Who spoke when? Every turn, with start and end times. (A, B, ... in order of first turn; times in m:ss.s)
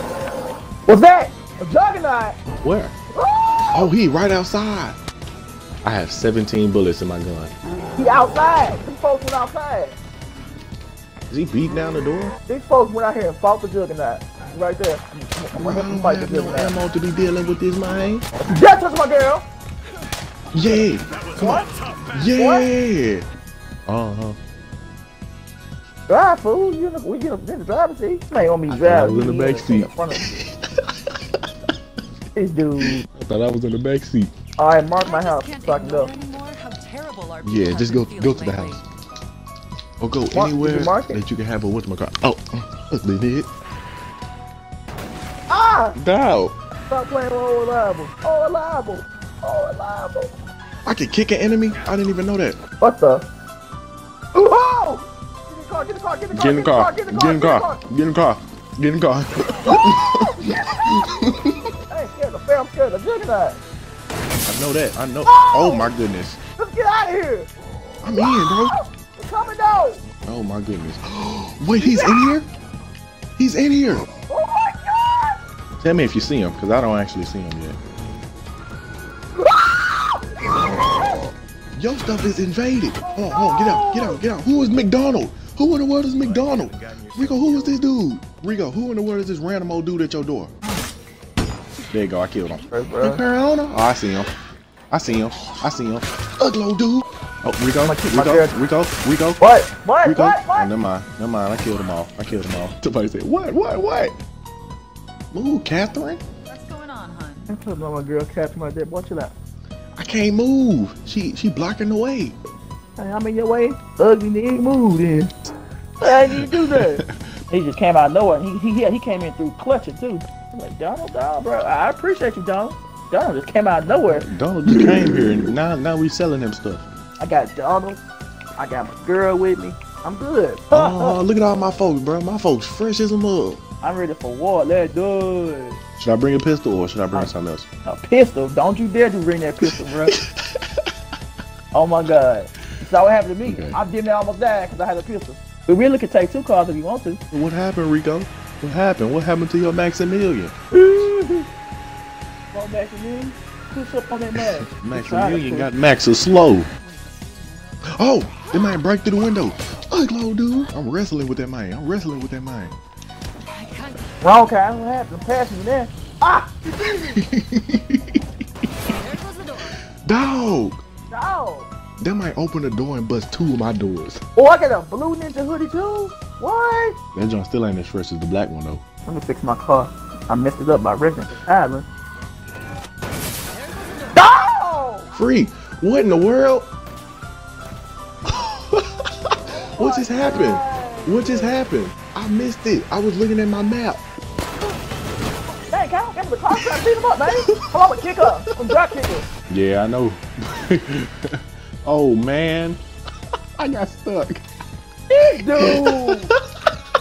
0:00.9-0:02.4 A
0:02.6-0:02.9 B
0:03.1-0:03.9 A
0:03.7-0:05.0 B
0:05.8-0:07.5 B
0:07.9-0:10.0 A
0:11.3-0:12.4 B
0:12.5-0:16.8 A
0:15.6-0:18.3 B
0:18.4-0:19.4 A
0:20.5-0:23.2 B
0:21.4-0:21.7 A
0:22.4-0:22.7 A
0:23.9-0:24.4 B
0:26.1-0:30.4 A
0:28.7-0:30.8 B
0:32.4-0:33.0 A
0:33.0-0:34.3 B
0:34.6-0:36.1 A
0:35.0-0:38.8 C
0:37.4-0:38.8 B
0:40.0-0:43.5 B
0:40.3-0:41.2 A
0:45.5-0:46.0 A
0:46.0-0:46.6 B
0:46.9-0:50.3 A
0:50.8-0:52.6 B
0:52.8-0:53.3 A
0:54.3-0:57.8 A
0:56.3-1:01.7 B
0:59.6-1:01.2 A
1:01.9-1:03.6 A
1:04.5-1:06.4 B
1:05.2-1:05.9 A
1:06.6-1:07.5 A
1:08.0-1:08.8 B
1:08.1-1:10.0 A
1:10.2-1:12.5 B
1:11.8-1:12.3 A
1:13.4-1:14.1 B
1:14.3-1:15.4 A
1:15.8-1:17.8 B
1:19.4-1:21.2 A
1:21.8-1:30.5 B
1:23.0-1:24.2 A
1:31.9-1:34.3 B
1:32.7-1:33.2 A
1:34.9-1:39.4 B
1:37.8-1:38.5 A
1:39.4-1:40.7 A
1:40.0-1:44.2 B
1:45.3-1:46.2 B
1:46.5-1:47.5 C
1:47.5-1:49.4 A
1:50.0-1:52.4 B
1:53.0-1:55.3 A
1:56.0-2:05.2 A
1:56.3-1:57.1 B
2:04.0-2:06.9 B
2:07.2-2:08.0 A
2:08.6-2:11.2 A
2:10.7-2:13.6 B
2:13.8-2:15.8 A
2:16.0-2:17.7 B
2:17.8-2:20.2 A
2:20.0-2:20.6 B
2:21.7-2:27.2 A
2:23.5-2:23.8 B
2:27.3-2:30.5 B
2:30.7-2:31.4 A
2:32.5-2:35.7 A
2:34.4-2:36.7 B
2:37.0-2:37.5 C
2:37.9-2:42.8 B
2:43.7-2:44.0 C
2:44.2-2:47.2 A
2:46.8-2:48.2 B
2:49.0-2:49.7 C
2:49.9-2:50.8 B
2:51.1-2:51.7 A
2:52.0-2:54.2 B
2:54.4-2:57.0 A
2:57.2-2:58.8 B
2:59.1-3:01.9 A
3:04.1-3:05.1 A
3:05.1-3:06.7 B
3:08.3-3:14.0 B
3:09.8-3:11.7 A
3:15.7-3:19.3 A
3:17.4-3:17.6 B
3:19.5-3:22.8 B
3:23.6-3:24.4 B
3:25.1-3:26.3 A
3:25.6-3:26.4 B